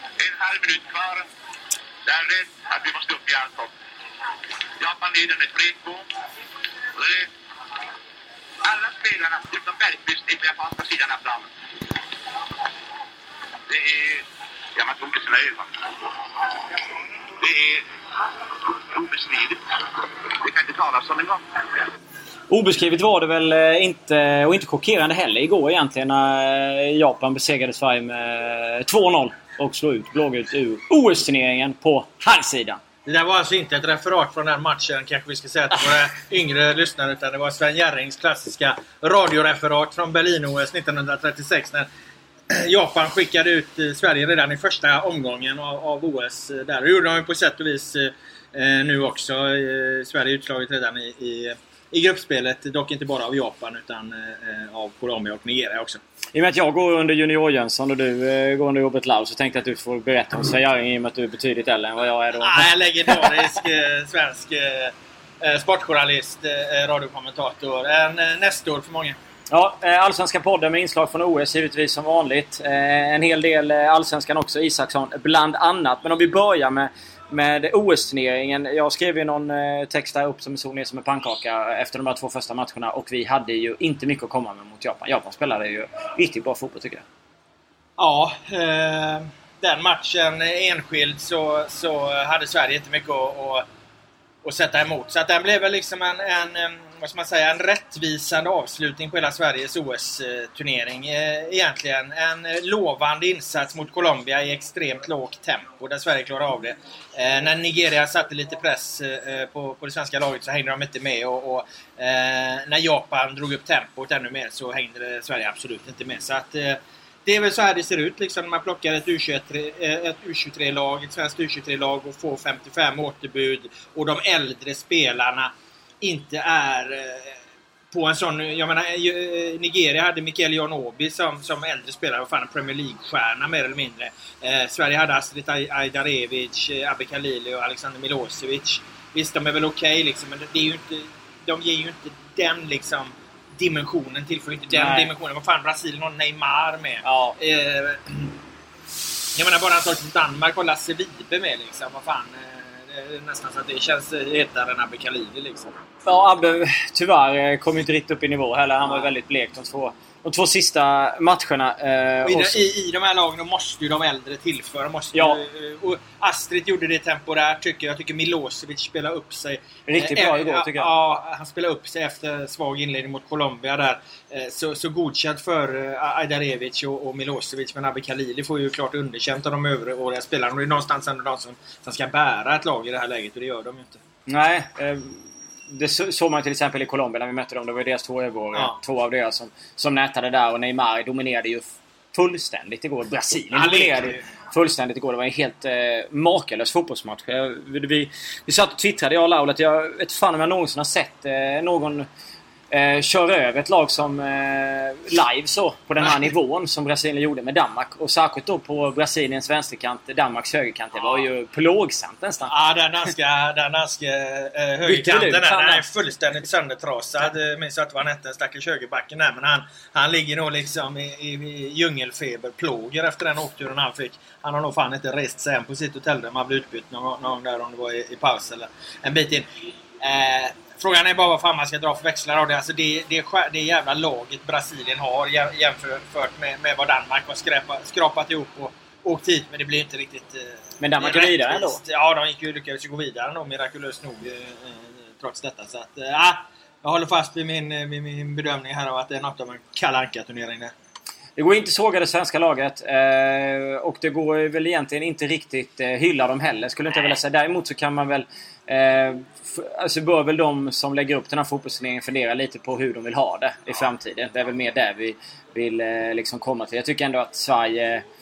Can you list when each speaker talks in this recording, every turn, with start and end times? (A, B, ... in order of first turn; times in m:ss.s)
0:00.2-0:01.3 A
0:02.1-0:03.7 A
0:04.8-0:06.1 A
0:07.0-0:07.3 A
0:08.6-0:11.5 A
0:13.7-0:15.8 A
0:17.4-0:17.9 A
0:18.7-0:19.6 A
0:20.3-0:21.8 A
0:22.5-0:32.8 B
0:33.0-0:41.9 C
0:42.5-0:56.0 C
0:56.4-1:03.4 B
1:02.4-1:09.2 C
1:09.5-1:27.0 B
1:28.0-1:33.6 C
1:34.4-2:28.4 C
2:24.7-2:25.1 B
2:27.0-2:27.4 B
2:29.3-2:35.8 C
2:36.0-2:42.6 B
2:38.8-2:39.1 C
2:42.2-3:04.0 C
2:45.1-2:45.4 B
2:49.9-2:50.9 B
3:04.3-3:22.1 B
3:13.5-3:14.2 C
3:22.7-3:32.5 B
3:32.5-3:49.5 C
3:34.8-3:35.8 B
3:50.0-4:10.7 C
4:00.8-4:01.8 B
4:11.4-4:28.0 B